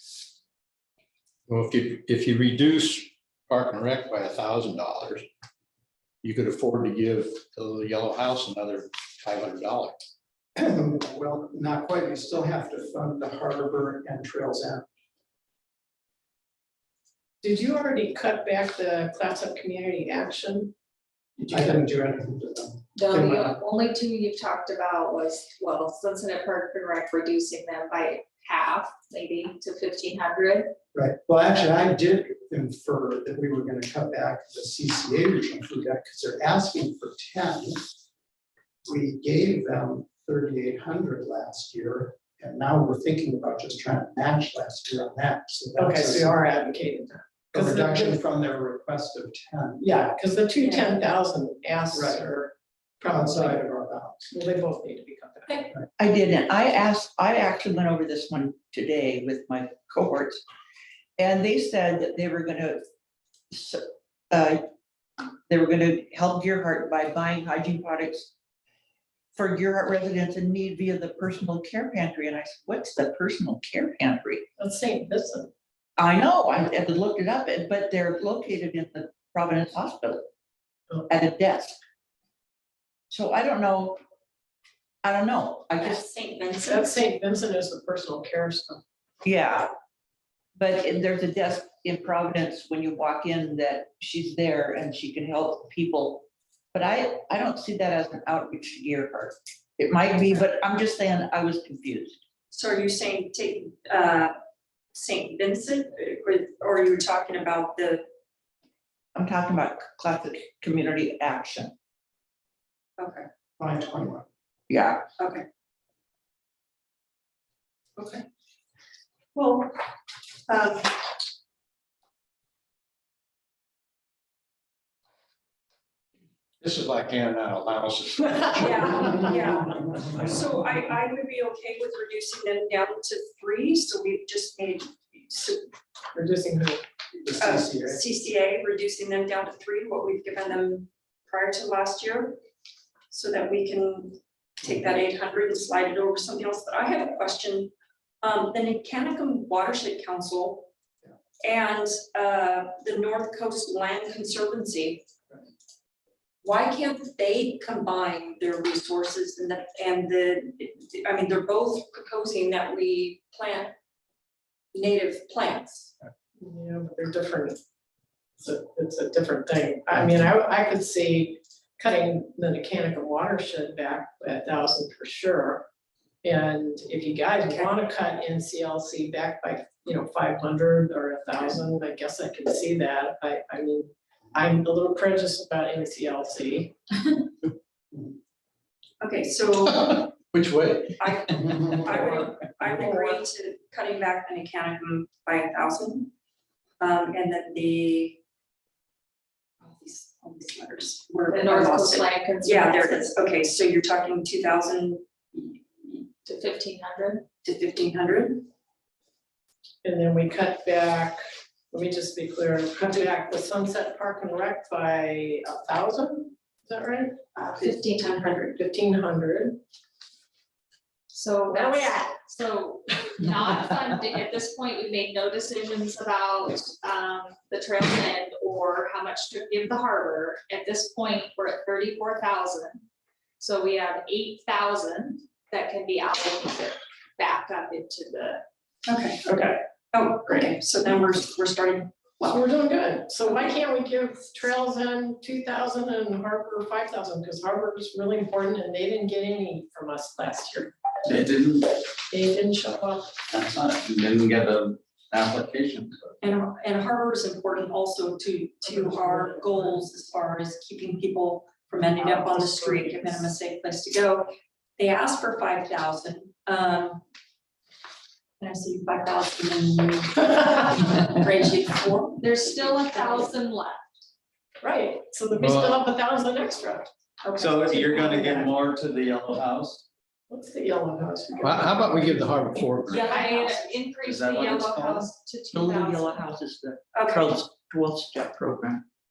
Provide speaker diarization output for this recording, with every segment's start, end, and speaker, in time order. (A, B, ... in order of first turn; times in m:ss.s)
0:01.5-0:05.2 A
0:06.2-0:10.0 A
0:10.6-0:14.8 B
0:17.4-0:20.7 C
0:21.4-0:21.8 C
0:21.5-0:23.6 B
0:22.9-0:30.7 D
0:30.9-0:37.9 B
0:38.9-0:46.4 B
0:45.8-0:48.2 C
0:47.5-0:49.8 B
0:49.8-0:53.6 C
0:50.6-0:50.9 E
0:51.9-0:52.2 B
0:53.0-0:54.3 B
0:54.3-0:55.7 C
0:56.0-1:00.4 F
1:01.2-1:02.8 F
1:03.5-1:04.6 F
1:05.5-1:08.3 F
1:09.3-1:14.4 F
1:14.6-1:15.5 C
1:16.0-1:20.2 F
1:21.1-1:21.8 F
1:23.1-1:24.0 F
1:25.0-1:26.0 F
1:25.8-1:27.0 E
1:26.6-1:28.8 C
1:29.2-1:29.7 F
1:30.6-1:42.2 F
1:42.5-1:44.3 E
1:44.9-1:48.0 E
1:49.1-1:51.7 F
1:53.0-1:53.2 E
1:53.6-1:54.2 B
1:54.7-1:55.1 F
1:55.2-1:55.4 E
1:58.0-1:58.2 E
1:59.3-1:59.7 E
2:00.5-2:01.0 E
2:06.6-2:09.2 A
2:08.6-2:15.7 E
2:16.1-2:16.8 C
2:17.2-2:18.0 B
2:17.4-2:22.4 E
2:23.1-2:30.7 E
2:31.4-2:35.0 E
2:36.4-2:43.7 E
2:44.7-2:45.9 E
2:46.4-2:47.6 C
2:48.4-2:55.6 C
2:56.2-3:06.7 C
2:57.4-2:57.7 E
3:09.0-3:10.1 E
3:10.3-3:11.0 A
3:11.0-3:16.1 E
3:11.9-3:13.2 C
3:16.8-3:18.2 E
3:19.6-3:26.1 E
3:21.3-3:23.1 D
3:26.2-3:27.2 D
3:27.4-3:28.4 E
3:29.8-3:31.2 C
3:31.7-3:37.1 C
3:37.4-3:38.5 E
3:37.6-3:38.4 D
3:38.5-3:39.6 C
3:41.1-3:52.8 D
3:41.5-3:41.9 C
3:53.4-3:58.4 D
3:58.8-4:02.4 E
3:59.3-3:59.6 C
4:02.2-4:10.7 C
4:11.0-4:11.8 G
4:12.1-4:13.1 C
4:13.3-4:16.2 G
4:16.2-4:27.0 E
4:18.6-4:19.8 C
4:22.0-4:23.2 C
4:28.4-4:32.4 E
4:32.2-4:33.9 D
4:34.6-4:38.5 C
4:35.4-4:35.8 A
4:37.4-4:39.8 G
4:40.3-4:43.4 C
4:41.4-4:43.1 A
4:42.9-4:46.2 D
4:43.0-4:43.7 E
4:43.9-4:45.1 G
4:45.5-4:48.8 F
4:46.9-4:47.3 E